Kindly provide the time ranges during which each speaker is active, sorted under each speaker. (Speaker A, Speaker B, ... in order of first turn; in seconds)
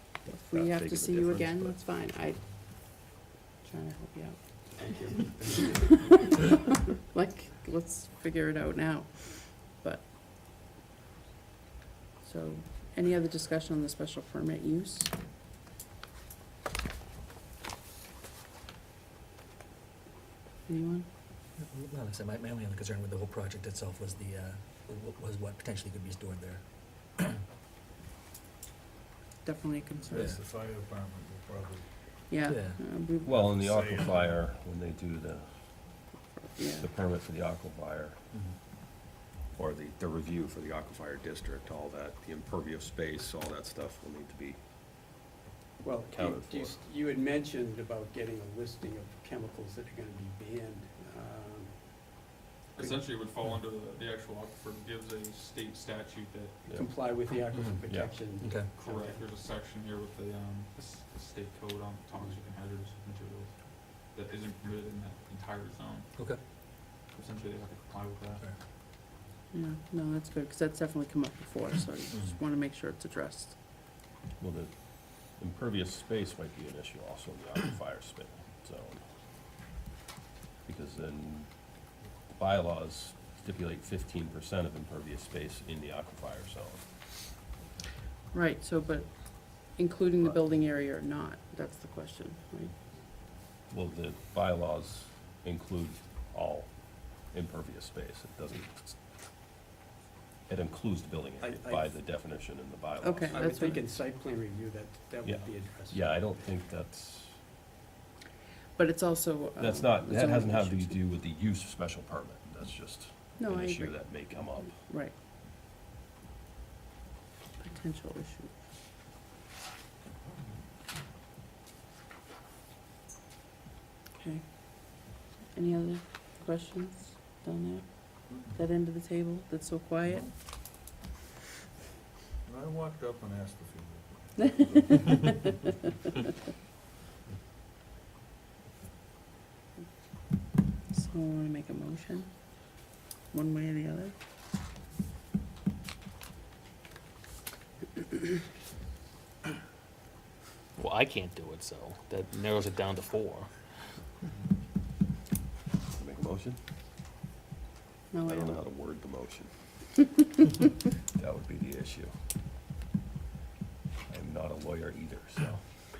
Speaker A: 0.3-10.1, 12.2-15.1, 20.7-21.1, 29.4-30.4, 32.3-33.3, 36.5-36.9, 69.5-73.6, 88.3-92.8, 103.0-103.8, 108.8-111.0, 113.4-115.2, 117.6-118.5, 124.2-130.3, 140.9-142.4, 143.3-144.1, 158.1-158.6
Speaker B: 0.5-1.8, 33.2-35.5, 36.7-38.2, 39.5-44.6, 46.1-46.8, 57.9-58.2, 74.4-79.0, 80.6-81.7, 82.3-86.8, 93.7-99.0, 100.5-103.5, 105.2-107.4, 109.6-114.8, 155.9-156.6, 158.2-159.5, 161.1-162.1, 164.1-165.6
Speaker C: 21.6-27.2, 30.1-30.4, 32.4-32.8, 57.4-57.8, 58.4-58.7
Speaker D: 29.9-31.9, 33.5-34.4, 132.4-135.5
Speaker E: 45.8-52.2, 56.6-59.2, 101.4-102.0, 103.3-106.2
Speaker F: 52.7-56.6, 58.7-66.1, 66.7-68.5
Speaker G: 150.8-153.5